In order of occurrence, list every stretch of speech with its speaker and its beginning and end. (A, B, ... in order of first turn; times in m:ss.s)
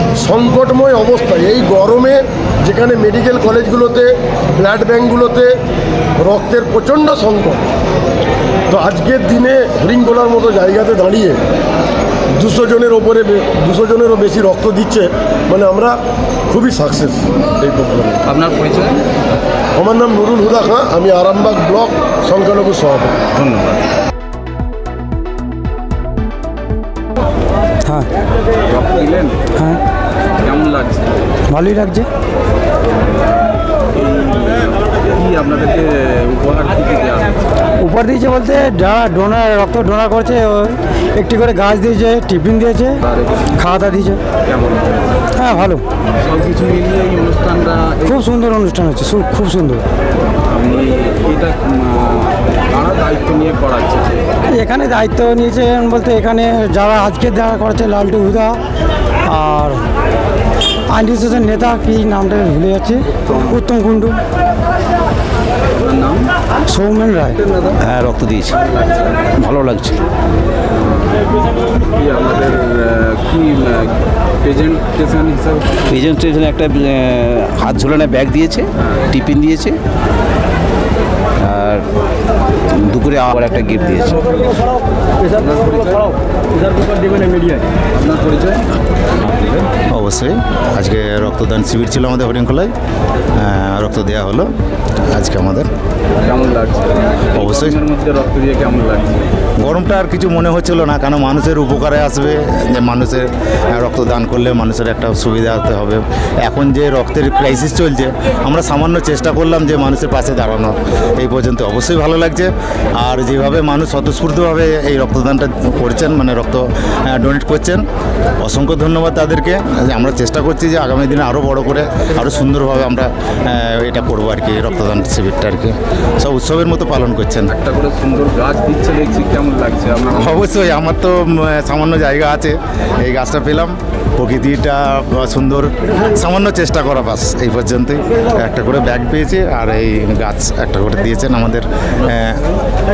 0:00.2-0:05.6 A
0:06.2-0:07.6 A
0:08.7-0:11.4 A
0:12.4-0:16.0 A
0:16.5-0:18.2 A
0:18.2-0:19.0 B
0:19.8-0:23.2 A
0:23.3-0:23.8 B
0:28.7-0:29.4 B
0:30.4-0:31.1 B
0:31.5-0:32.1 C
0:33.9-0:37.4 B
0:37.8-0:43.0 C
0:43.0-0:43.6 B
0:43.6-0:44.2 C
0:44.4-0:45.2 B
0:45.4-0:45.8 C
0:46.2-0:48.2 B
0:48.0-0:49.8 C
0:50.5-0:54.3 B
0:54.5-0:58.6 C
0:59.3-0:59.8 C
1:00.9-1:04.2 C
1:05.7-1:06.3 B
1:06.7-1:07.4 C
1:07.4-1:07.8 B
1:07.8-1:08.6 D
1:08.6-1:09.2 B
1:09.4-1:10.0 D
1:10.7-1:15.8 B
1:15.9-1:19.8 D
1:21.4-1:21.9 D
1:22.7-1:24.2 D
1:25.3-1:26.2 B
1:26.9-1:28.7 B
1:29.9-1:32.7 E
1:33.4-1:34.5 E
1:35.1-1:35.7 E
1:36.2-1:39.3 B
1:37.4-1:37.8 E
1:39.6-1:57.9 E
1:58.4-2:07.5 E
2:07.5-2:10.4 B
2:10.2-2:22.5 E